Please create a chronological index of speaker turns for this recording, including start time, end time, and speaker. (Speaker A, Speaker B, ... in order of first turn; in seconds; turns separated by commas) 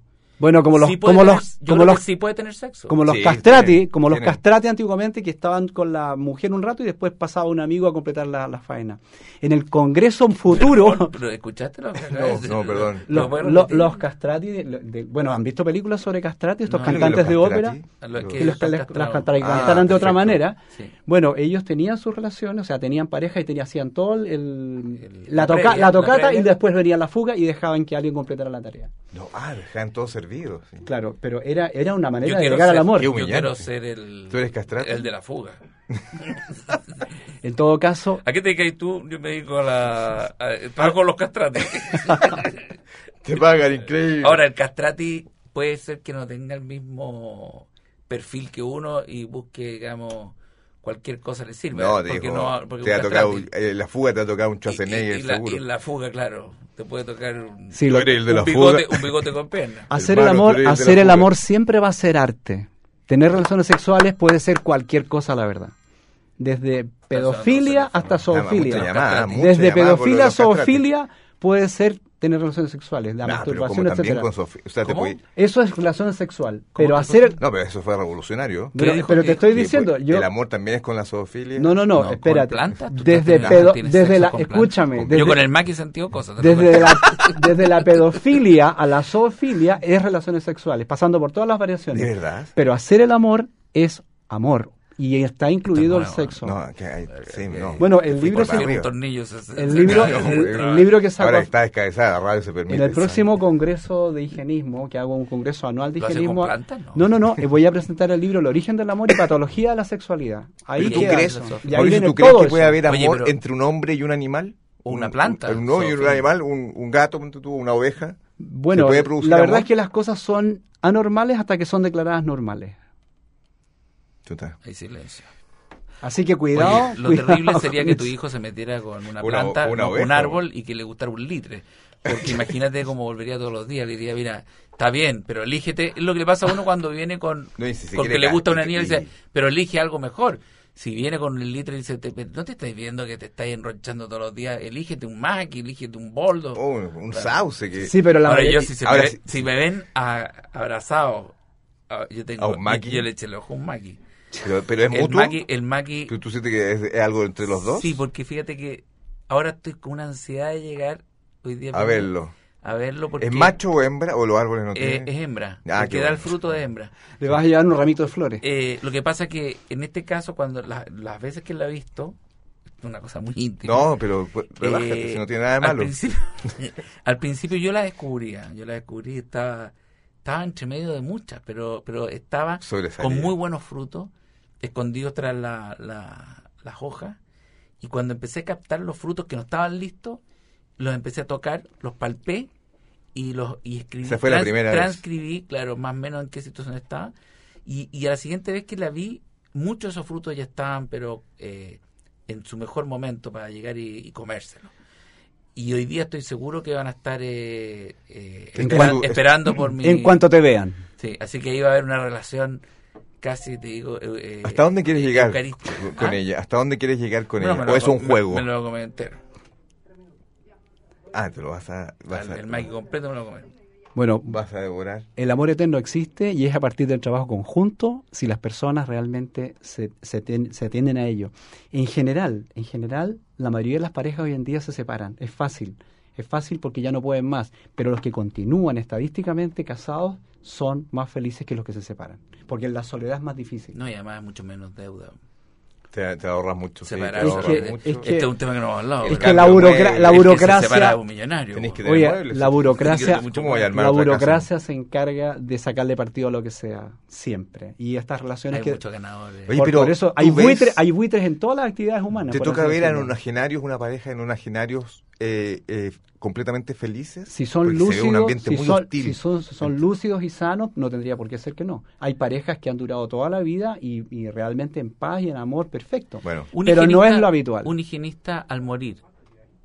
Speaker A: 0.4-2.0, Speaker B: 0.8-3.0, Speaker A: 2.9-11.2, Speaker C: 3.1-4.4, Speaker B: 10.5-14.0, Speaker C: 12.0-13.3, Speaker A: 13.1-17.8, Speaker B: 16.7-17.4, Speaker C: 16.8-18.5, Speaker B: 18.0-20.1, Speaker A: 18.4-28.9, Speaker C: 19.4-20.4, Speaker B: 25.0-26.5, Speaker C: 29.1-30.9, Speaker A: 30.9-33.1, Speaker B: 32.2-35.6, Speaker C: 33.0-33.7, Speaker C: 34.3-35.1, Speaker A: 37.4-38.2, Speaker B: 38.2-42.7, Speaker C: 43.2-44.4, Speaker B: 44.2-53.5, Speaker C: 51.7-55.6, Speaker B: 54.7-59.9, Speaker A: 57.7-58.2, Speaker C: 57.9-59.1, Speaker A: 59.9-65.7, Speaker C: 59.9-61.3, Speaker A: 66.4-74.3, Speaker B: 67.1-69.4, Speaker C: 68.3-70.8, Speaker C: 73.2-75.2, Speaker B: 74.8-75.2, Speaker A: 75.3-77.4, Speaker B: 76.8-77.4, Speaker C: 77.4-78.8, Speaker A: 78.8-80.3, Speaker B: 78.8-79.5, Speaker C: 79.3-81.8, Speaker A: 81.6-85.4, Speaker B: 81.9-87.6, Speaker C: 85.0-85.3, Speaker A: 86.4-96.6, Speaker C: 91.9-92.5, Speaker B: 95.7-96.4, Speaker C: 96.4-98.9, Speaker B: 97.1-100.9, Speaker A: 97.8-98.7, Speaker A: 99.6-101.5, Speaker C: 99.8-103.3, Speaker A: 102.7-112.8, Speaker B: 106.0-107.1, Speaker B: 110.8-112.0, Speaker C: 110.8-118.2, Speaker B: 112.8-113.4, Speaker B: 114.8-116.3, Speaker A: 118.4-122.8, Speaker C: 118.7-119.7, Speaker C: 124.2-124.6, Speaker B: 124.6-125.3, Speaker A: 126.0-128.1, Speaker B: 126.5-147.4, Speaker C: 129.2-130.4, Speaker C: 137.6-139.1, Speaker C: 146.6-147.9, Speaker A: 147.8-148.7, Speaker B: 148.2-151.3, Speaker C: 148.8-149.4, Speaker B: 151.9-154.0, Speaker C: 152.4-153.1, Speaker C: 154.4-155.4, Speaker B: 154.9-156.1, Speaker C: 156.1-158.0, Speaker B: 157.5-163.6, Speaker C: 161.7-162.3, Speaker C: 163.2-165.1, Speaker B: 164.7-166.9, Speaker C: 165.7-166.4, Speaker A: 167.2-168.4, Speaker B: 168.4-172.2, Speaker B: 172.8-173.9, Speaker C: 173.7-175.9, Speaker B: 174.6-184.1, Speaker C: 182.6-183.3, Speaker B: 184.6-187.2, Speaker B: 187.8-190.2, Speaker B: 190.8-192.5, Speaker B: 193.2-204.7, Speaker C: 194.0-195.0, Speaker B: 205.6-210.2, Speaker C: 208.6-209.3, Speaker A: 208.6-209.2, Speaker A: 209.8-210.8, Speaker B: 211.0-212.6, Speaker B: 213.2-216.2, Speaker C: 214.4-218.5, Speaker B: 217.4-219.2, Speaker C: 221.1-222.7, Speaker B: 222.1-223.5, Speaker A: 223.9-224.4, Speaker C: 224.3-225.1, Speaker A: 225.2-243.8, Speaker B: 243.7-245.2, Speaker C: 245.9-248.1, Speaker B: 246.8-251.8, Speaker A: 247.2-248.3, Speaker C: 249.0-250.5, Speaker A: 249.1-251.0, Speaker C: 251.5-254.5, Speaker A: 251.8-258.8, Speaker B: 252.8-253.7, Speaker B: 258.5-259.6, Speaker C: 259.5-260.8, Speaker A: 259.5-263.1, Speaker C: 262.3-269.2, Speaker A: 267.3-277.7, Speaker C: 276.2-276.5, Speaker B: 276.5-279.0